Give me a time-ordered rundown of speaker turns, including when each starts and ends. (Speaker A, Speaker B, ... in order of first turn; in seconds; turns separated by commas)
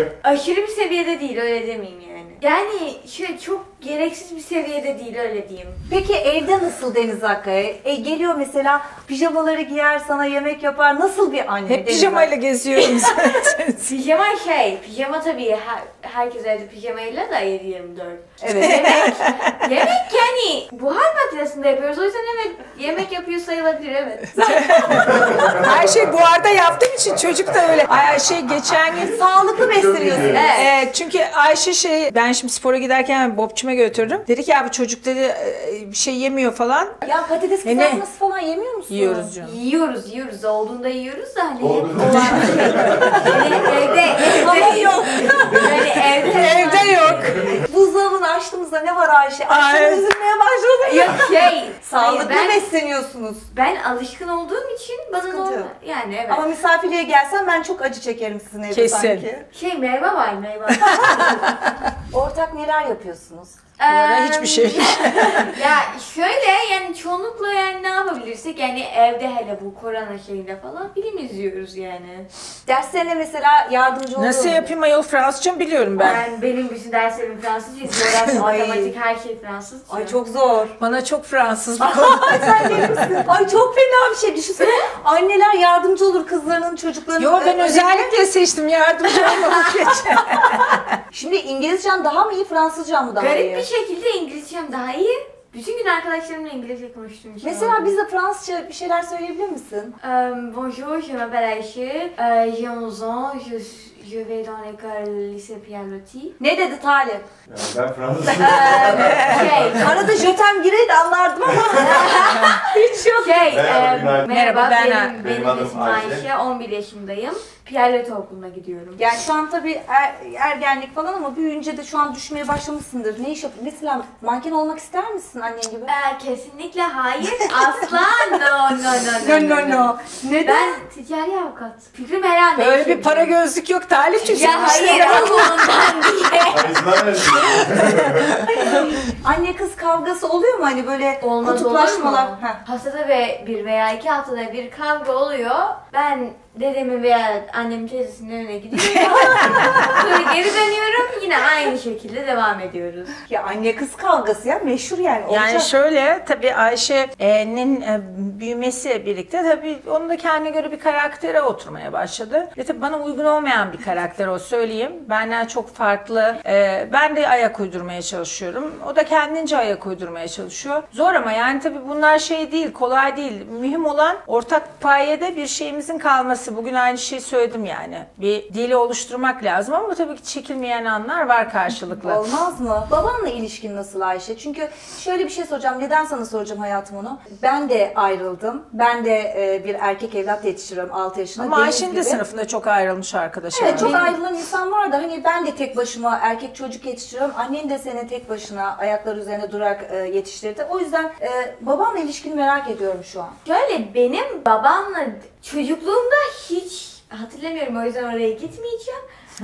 Speaker A: 0.2-5.8, Speaker B: 5.9-12.3, Speaker C: 11.7-13.9, Speaker A: 13.0-25.6, Speaker B: 18.4-19.2, Speaker C: 18.5-19.6, Speaker C: 24.3-29.2, Speaker B: 28.9-30.6, Speaker D: 29.9-30.3, Speaker A: 30.2-30.7, Speaker C: 30.3-37.0, Speaker B: 37.0-39.3, Speaker C: 37.6-38.0, Speaker C: 38.9-39.5, Speaker A: 39.4-47.6, Speaker D: 41.6-43.9, Speaker C: 42.0-43.4, Speaker B: 43.0-46.9, Speaker C: 45.6-47.5, Speaker D: 46.5-47.5, Speaker B: 47.4-53.5, Speaker C: 49.5-50.0, Speaker A: 50.8-52.6, Speaker A: 53.5-56.5, Speaker B: 55.3-55.7, Speaker B: 56.3-59.5, Speaker C: 58.7-59.3, Speaker A: 59.5-61.5, Speaker C: 60.8-61.7, Speaker B: 62.1-63.6, Speaker A: 63.8-72.3, Speaker C: 63.9-65.6, Speaker B: 72.7-74.7, Speaker C: 74.2-76.2, Speaker A: 76.0-80.2, Speaker C: 78.1-78.3, Speaker B: 78.3-78.9, Speaker B: 79.9-80.8, Speaker C: 80.8-83.2, Speaker B: 81.8-88.2, Speaker C: 87.2-91.0, Speaker B: 91.1-93.7, Speaker A: 93.2-97.9, Speaker B: 97.4-99.9, Speaker A: 100.0-106.3, Speaker B: 106.4-107.3, Speaker D: 107.5-110.2, Speaker B: 108.2-113.6, Speaker A: 108.3-110.2, Speaker C: 108.8-109.5, Speaker A: 111.6-119.0, Speaker D: 111.7-112.0, Speaker D: 113.4-114.3, Speaker C: 114.3-115.3, Speaker D: 115.1-116.3, Speaker B: 119.0-125.9, Speaker A: 125.8-133.3, Speaker B: 129.2-130.8, Speaker C: 132.6-135.6, Speaker A: 134.2-137.6, Speaker B: 134.3-135.8, Speaker D: 136.5-138.4, Speaker C: 137.4-138.8, Speaker A: 138.5-138.8, Speaker B: 138.6-142.6, Speaker A: 141.2-153.2, Speaker C: 148.8-150.0, Speaker B: 149.0-150.0, Speaker B: 153.3-155.7, Speaker C: 155.3-182.2, Speaker B: 181.8-192.2, Speaker C: 191.4-194.1, Speaker B: 193.5-203.3, Speaker A: 193.6-194.0, Speaker A: 203.4-209.0